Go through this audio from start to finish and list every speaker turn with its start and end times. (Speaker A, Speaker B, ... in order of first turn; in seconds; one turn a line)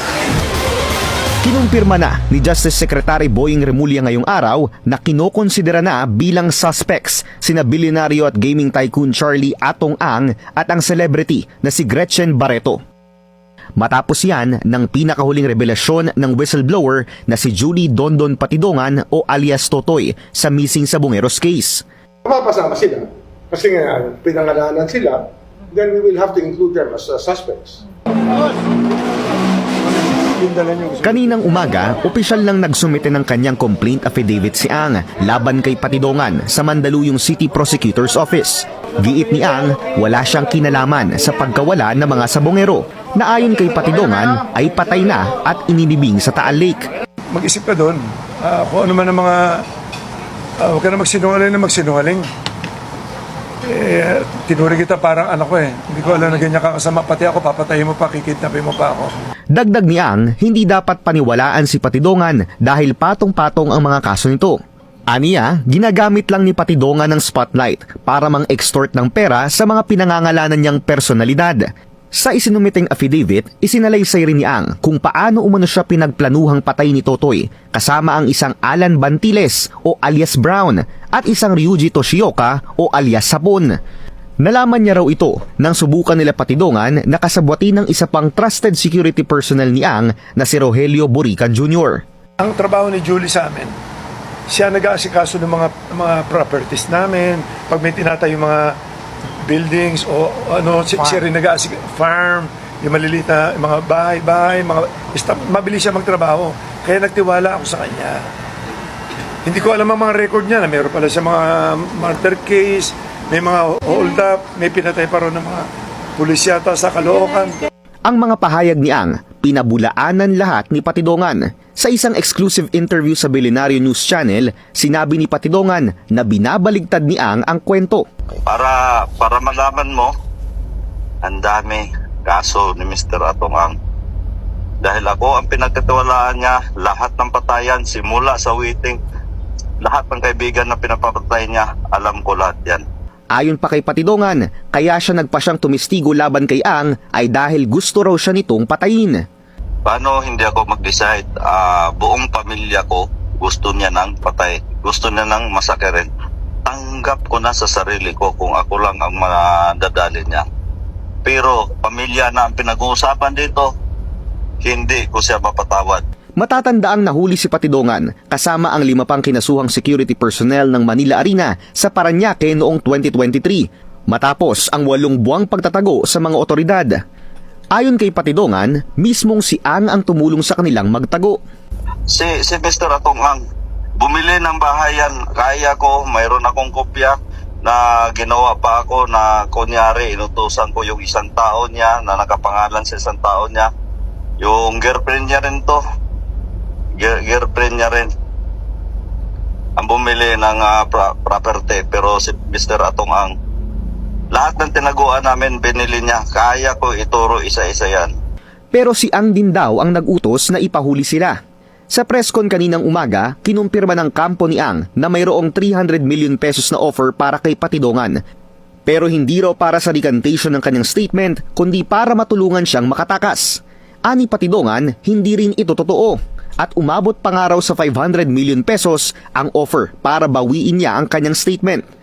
Speaker A: 1.4-12.8
Speaker A: 13.8-21.8
Speaker B: 22.2-27.8
Speaker C: 30.6-30.9
Speaker A: 31.0-46.9
Speaker C: 47.3-49.6
Speaker C: 50.6-52.3
Speaker C: 53.7-59.1
Speaker A: 59.5-64.6
Speaker A: 65.1-71.6
Speaker A: 72.1-83.7
Speaker A: 84.4-92.0
Speaker C: 92.4-93.7
Speaker C: 94.5-98.7
Speaker C: 99.5-108.2
Speaker C: 109.5-117.6
Speaker A: 118.1-128.1
Speaker D: 128.5-130.1
Speaker D: 131.2-133.7
Speaker D: 134.8-139.0
Speaker D: 139.8-142.8
Speaker A: 143.4-149.2
Speaker D: 149.9-156.1
Speaker D: 156.7-160.4
Speaker D: 161.2-163.7
Speaker D: 164.6-166.0
Speaker A: 166.4-176.9
Speaker A: 177.7-181.4
Speaker D: 182.1-183.4
Speaker D: 184.0-193.7
Speaker D: 194.4-195.8
Speaker D: 197.0-198.1
Speaker D: 199.8-203.3
Speaker D: 204.3-208.1
Speaker A: 208.7-211.3
Speaker A: 211.9-218.2
Speaker A: 218.9-231.8